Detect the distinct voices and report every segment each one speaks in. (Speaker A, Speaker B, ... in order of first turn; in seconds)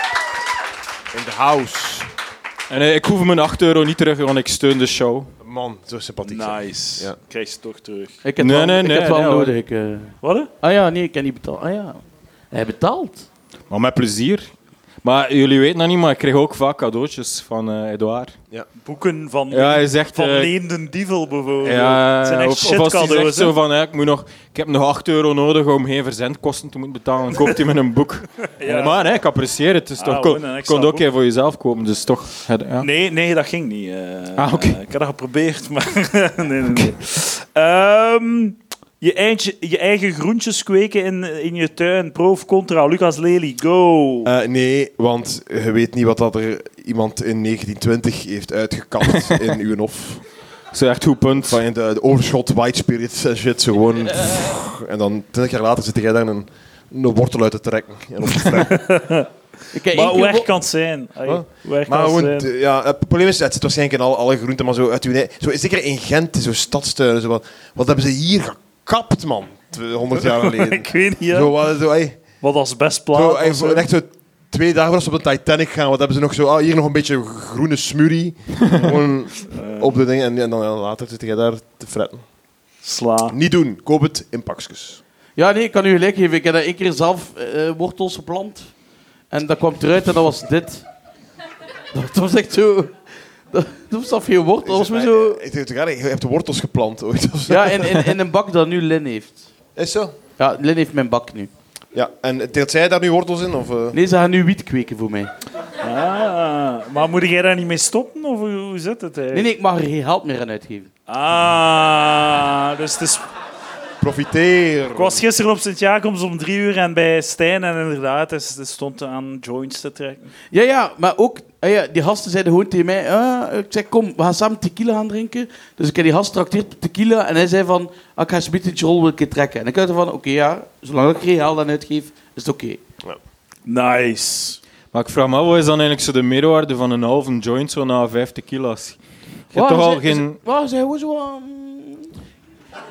Speaker A: 1.1-2.1, 5.4-7.2, 44.2-50.2, 51.3-58.9, 61.2-72.4, 73.1-82.2, 83.3-85.0, 94.6-98.2, 99.8-100.1, 101.9-104.0, 114.0-115.2
Speaker B: 2.7-5.3, 8.4-9.5, 13.7-14.5, 15.0-18.4, 19.5-20.5, 21.6-32.9, 34.4-34.8, 50.7-51.5, 134.9-139.0, 139.5-140.4
Speaker C: 6.2-8.2, 10.2-10.5, 18.8-23.5, 28.6-29.2, 30.0-31.0, 32.8-44.3, 58.7-59.3, 59.9-62.5, 70.3-71.5, 72.2-73.8, 79.5-80.0, 82.8-83.3, 105.8-109.5, 111.1-113.2, 114.9-120.3, 133.7-134.6
Speaker D: 8.2-13.2, 59.7-60.5, 85.3-88.7, 89.3-90.8, 91.9-93.0, 93.5-95.4, 97.5-99.5, 100.4-101.5, 103.9-105.3, 109.3-110.9, 120.5-132.8, 139.5-142.1